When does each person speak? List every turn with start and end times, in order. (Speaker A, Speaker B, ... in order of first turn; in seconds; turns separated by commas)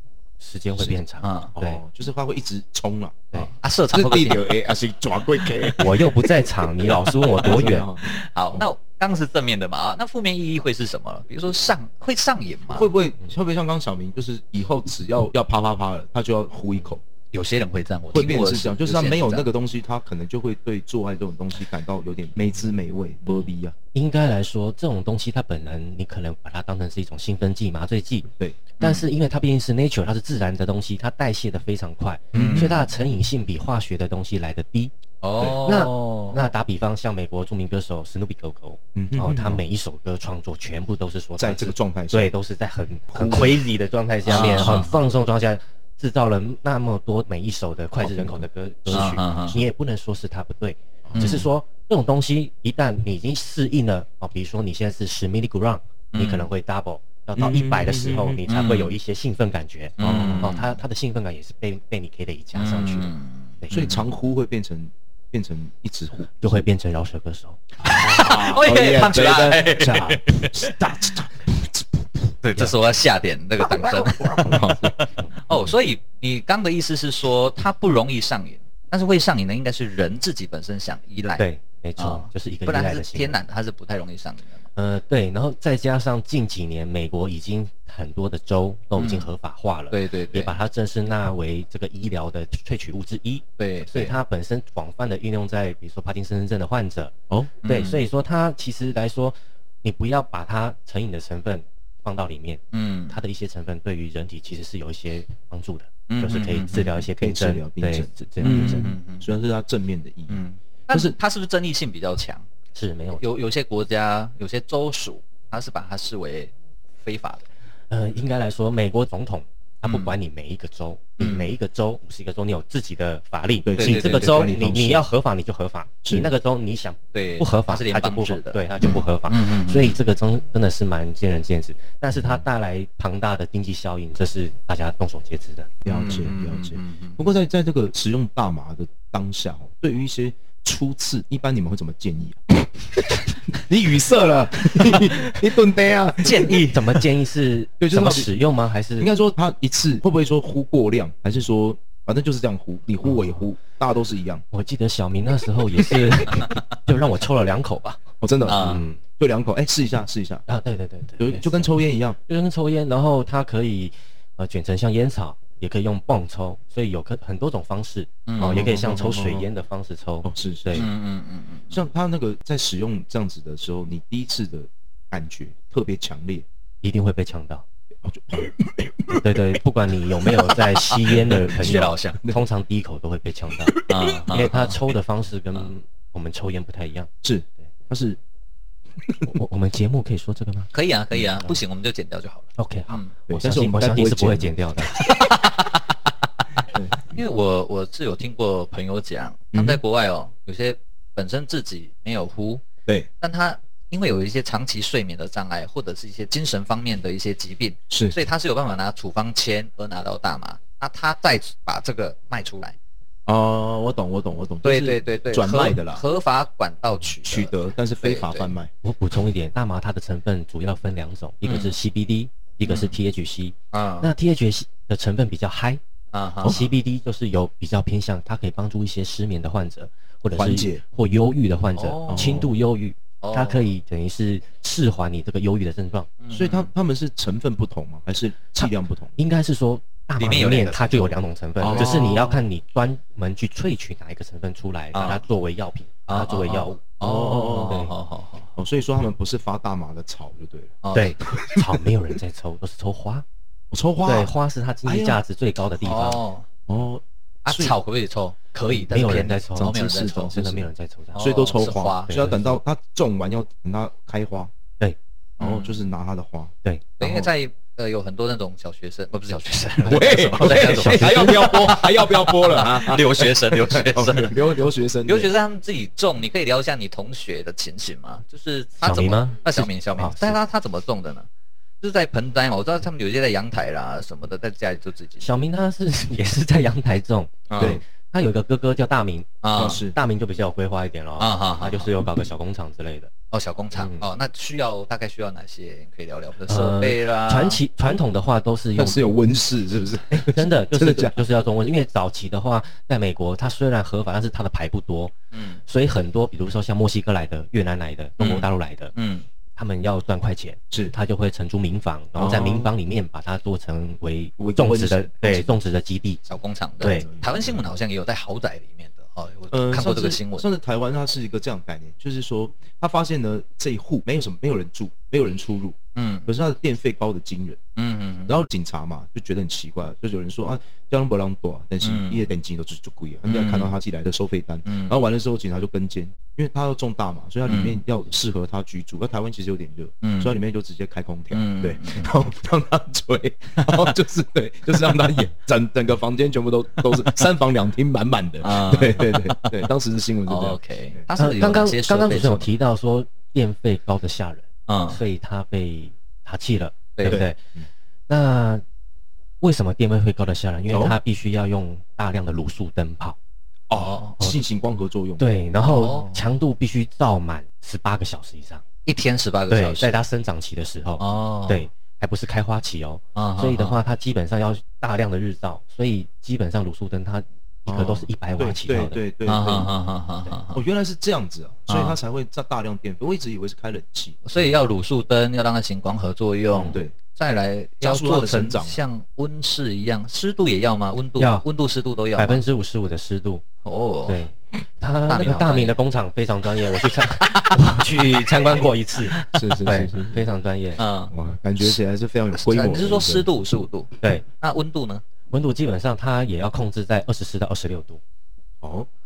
Speaker A: 0.4-1.8, Speaker B: 1.2-1.5, Speaker C: 1.6-6.2, Speaker B: 3.6-4.5, Speaker A: 5.8-7.9, Speaker C: 6.8-8.7, Speaker B: 6.9-12.9, Speaker C: 12.7-17.0, Speaker B: 17.3-19.5, Speaker C: 18.1-23.8, Speaker A: 23.9-28.3, Speaker A: 28.8-34.9, Speaker B: 28.8-29.1, Speaker C: 32.3-32.8, Speaker B: 32.3-32.8, Speaker B: 35.2-36.5, Speaker A: 35.6-63.9, Speaker C: 39.0-39.6, Speaker C: 41.4-42.3, Speaker C: 43.1-43.6, Speaker B: 44.3-44.9, Speaker C: 44.4-44.8, Speaker C: 48.0-49.1, Speaker B: 48.9-49.6, Speaker C: 51.0-51.4, Speaker B: 51.1-51.5, Speaker B: 56.1-56.5, Speaker C: 57.4-58.4, Speaker B: 58.5-58.9, Speaker B: 60.0-60.7, Speaker C: 60.0-60.5, Speaker B: 62.5-64.1, Speaker C: 63.7-66.7, Speaker A: 66.4-67.6, Speaker B: 67.8-70.8, Speaker C: 67.9-72.3, Speaker B: 72.4-84.6, Speaker C: 73.8-75.0, Speaker A: 81.4-83.4, Speaker A: 84.8-97.1, Speaker B: 89.0-89.3, Speaker B: 89.9-90.6, Speaker B: 93.6-94.2, Speaker B: 97.6-98.0, Speaker A: 97.7-108.9, Speaker B: 102.7-103.2, Speaker B: 106.1-107.0, Speaker C: 107.1-111.2, Speaker B: 108.4-109.3, Speaker B: 110.3-112.5, Speaker A: 112.8-113.2, Speaker B: 113.2-117.5, Speaker A: 117.9-135.7, Speaker B: 119.8-120.2, Speaker B: 121.2-121.5, Speaker C: 123.7-125.0, Speaker B: 123.8-124.5, Speaker C: 126.0-126.3, Speaker B: 127.1-130.0, Speaker C: 132.1-132.4, Speaker C: 135.8-146.7, Speaker B: 135.9-137.2, Speaker B: 146.2-146.9, Speaker A: 146.6-149.1, Speaker C: 147.8-148.3, Speaker C: 149.0-154.4, Speaker A: 154.5-159.0, Speaker C: 158.2-160.5, Speaker B: 158.5-158.8, Speaker A: 160.5-170.9, Speaker C: 161.2-162.2, Speaker B: 168.3-168.7, Speaker C: 168.4-169.5, Speaker C: 170.2-170.9, Speaker B: 170.8-171.8, Speaker C: 171.7-176.4, Speaker A: 176.8-177.7, Speaker C: 178.1-179.2, Speaker A: 179.2-183.8, Speaker B: 180.8-182.2, Speaker C: 183.7-184.2, Speaker B: 183.9-184.8, Speaker A: 184.3-187.1, Speaker C: 187.2-188.2, Speaker A: 189.3-190.7, Speaker B: 190.7-193.1, Speaker A: 192.6-195.0, Speaker C: 193.3-194.5, Speaker B: 195.0-196.0, Speaker C: 196.7-197.1, Speaker B: 197.1-202.6, Speaker C: 199.5-199.8, Speaker B: 203.2-212.8, Speaker C: 207.9-208.2, Speaker C: 213.3-216.0, Speaker B: 214.6-218.5, Speaker C: 217.2-218.7, Speaker A: 218.8-225.8, Speaker B: 221.4-221.8, Speaker B: 222.6-223.0, Speaker B: 223.7-224.1, Speaker B: 226.1-226.6, Speaker C: 226.4-226.7, Speaker A: 226.4-236.1, Speaker C: 230.3-230.8, Speaker B: 231.8-232.4, Speaker C: 232.1-232.5, Speaker B: 233.2-233.7, Speaker B: 236.2-236.7, Speaker C: 236.3-239.2, Speaker A: 238.6-246.8, Speaker B: 240.2-241.1, Speaker C: 241.6-242.3, Speaker B: 241.7-242.4, Speaker B: 244.9-245.2, Speaker B: 246.1-248.5, Speaker C: 247.0-247.8, Speaker C: 248.6-251.8, Speaker B: 250.8-251.2, Speaker A: 250.9-253.2, Speaker C: 253.7-254.3, Speaker A: 254.1-256.2, Speaker C: 254.9-255.2, Speaker B: 255.8-256.5, Speaker C: 256.7-257.8, Speaker B: 257.5-260.4, Speaker A: 258.9-261.3, Speaker C: 259.0-264.5, Speaker B: 261.1-262.2, Speaker A: 262.1-262.6, Speaker B: 265.4-265.7, Speaker C: 265.4-266.5, Speaker A: 266.6-267.3, Speaker B: 267.0-274.4, Speaker C: 269.9-275.3, Speaker A: 269.9-271.7, Speaker B: 275.1-281.3, Speaker A: 278.8-280.4, Speaker B: 281.8-285.3, Speaker A: 285.2-293.1, Speaker B: 287.5-287.8, Speaker C: 287.6-287.8, Speaker B: 289.4-289.8, Speaker C: 289.6-290.0, Speaker B: 291.2-291.9, Speaker B: 293.3-297.6, Speaker A: 293.8-294.1, Speaker A: 296.5-299.1, Speaker C: 298.8-301.2, Speaker A: 300.1-305.1, Speaker B: 305.3-305.6, Speaker A: 305.7-308.9, Speaker B: 308.2-309.3, Speaker A: 309.6-316.2, Speaker C: 312.2-312.7, Speaker C: 314.4-315.6, Speaker B: 316.3-320.5, Speaker C: 316.8-317.6, Speaker A: 316.8-317.1, Speaker C: 319.5-327.6, Speaker B: 325.9-326.3, Speaker B: 327.8-328.4, Speaker C: 328.3-351.6, Speaker B: 331.8-332.3, Speaker B: 333.3-333.7, Speaker B: 334.7-335.0, Speaker B: 337.5-337.8, Speaker B: 340.0-340.4, Speaker B: 341.3-342.1, Speaker B: 343.6-343.9, Speaker B: 348.4-349.6, Speaker B: 350.3-352.5, Speaker A: 351.2-357.4, Speaker B: 354.7-355.0, Speaker B: 357.0-357.2, Speaker C: 357.1-357.7, Speaker A: 358.1-358.6, Speaker A: 359.4-363.2, Speaker C: 360.7-361.0, Speaker C: 363.7-365.2, Speaker B: 363.7-364.2, Speaker A: 365.2-368.6, Speaker B: 365.6-366.2, Speaker B: 368.9-370.0, Speaker A: 369.5-379.0, Speaker B: 371.0-371.7, Speaker B: 373.1-373.8, Speaker C: 377.7-379.7, Speaker B: 379.3-380.6, Speaker C: 380.5-384.2, Speaker B: 381.7-382.0, Speaker B: 384.2-392.4, Speaker A: 386.6-386.8, Speaker C: 386.7-386.9, Speaker C: 387.8-388.8, Speaker A: 391.2-391.4, Speaker A: 392.2-393.4, Speaker B: 393.6-394.2, Speaker A: 394.1-400.8, Speaker B: 395.1-395.8, Speaker B: 397.2-398.6, Speaker C: 399.3-400.2, Speaker B: 400.8-401.8, Speaker C: 401.1-403.3, Speaker B: 402.3-405.0, Speaker A: 405.3-408.0, Speaker C: 408.6-408.9